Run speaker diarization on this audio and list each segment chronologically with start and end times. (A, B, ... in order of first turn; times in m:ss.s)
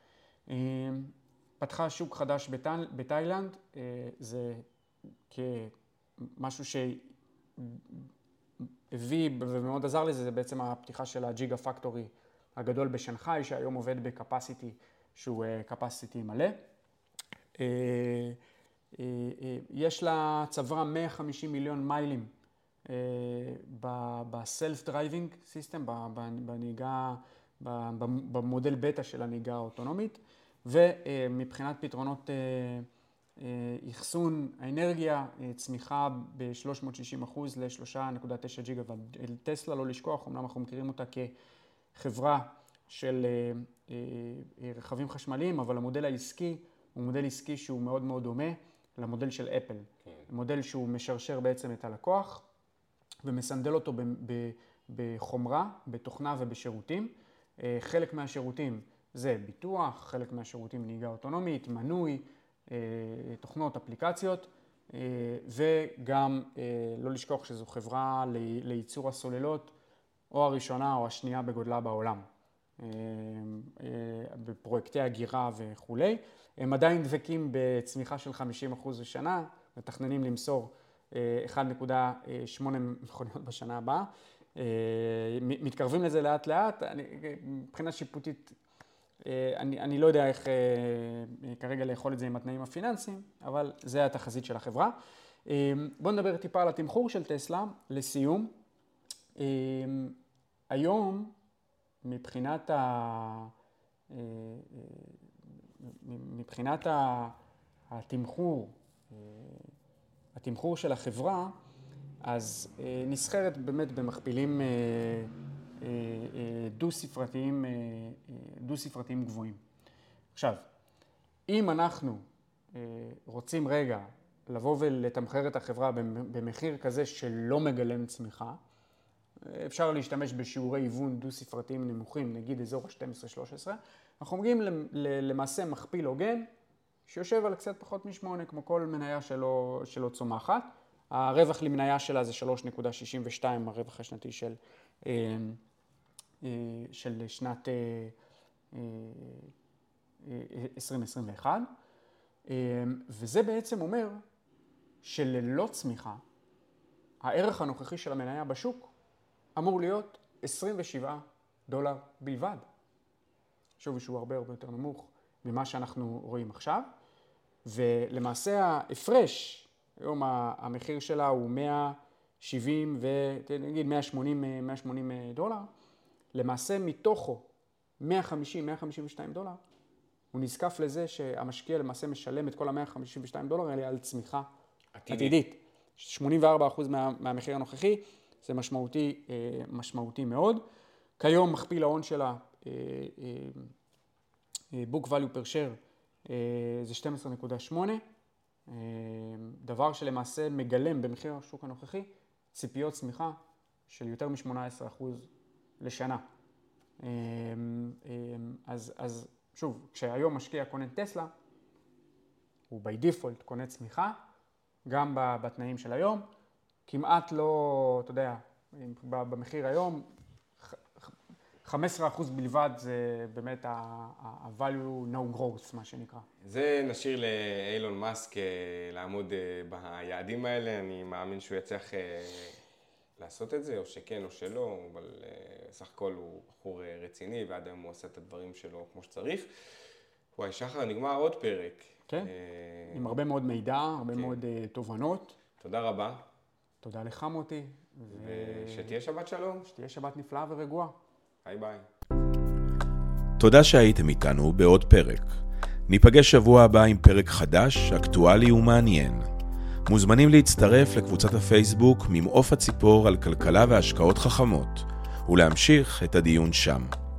0:00.5-0:04.6 A
0:05.3-0:08.1 A
0:08.6-0:16.6 A
0:17.6-0:18.4 A
0:19.0-0:22.3 A
0:22.9-0:32.9 A
0:33.4-0:41.3 A
0:41.9-0:52.4 A
0:53.2-1:09.7 A
1:10.3-1:12.2 A
1:12.8-1:28.6 A
1:29.2-1:34.9 A
1:35.5-1:38.5 A
1:39.4-1:40.2 A
1:40.7-1:41.3 A
1:42.0-1:43.5 A
1:44.1-1:45.2 A
1:45.8-1:47.4 A
1:47.9-1:49.7 A
1:50.3-1:51.5 A
1:52.2-1:59.6 A
2:00.3-2:00.6 A
2:01.5-2:08.6 A
2:09.4-2:16.5 A
2:17.1-2:25.6 A
2:26.4-2:28.1 A
2:28.7-2:29.5 A
2:30.2-2:31.7 A
2:32.5-2:34.2 A
2:35.0-2:36.2 A
2:37.2-2:38.9 A
2:39.6-2:42.6 A
2:43.8-2:46.9 A
2:47.6-2:55.7 A
2:56.3-2:57.5 A
2:58.0-2:59.6 A
3:00.3-3:04.5 A
3:04.9-3:05.4 B
3:05.1-3:10.6 A
3:11.2-3:13.7 A
3:14.7-3:18.0 A
3:18.7-3:25.3 A
3:25.8-3:26.2 A
3:27.0-3:31.3 A
3:32.7-3:34.2 A
3:34.8-3:36.3 A
3:36.9-3:40.1 A
3:40.6-3:46.2 A
3:46.4-3:52.6 B
3:53.2-3:59.5 B
4:00.3-4:03.1 B
4:02.9-4:05.4 A
4:04.1-4:04.4 B
4:05.6-4:06.2 B
4:06.8-4:09.0 A
4:08.1-4:09.7 B
4:09.6-4:11.0 A
4:11.4-4:11.9 B
4:13.4-4:15.3 C
4:15.9-4:19.3 C
4:19.9-4:26.9 C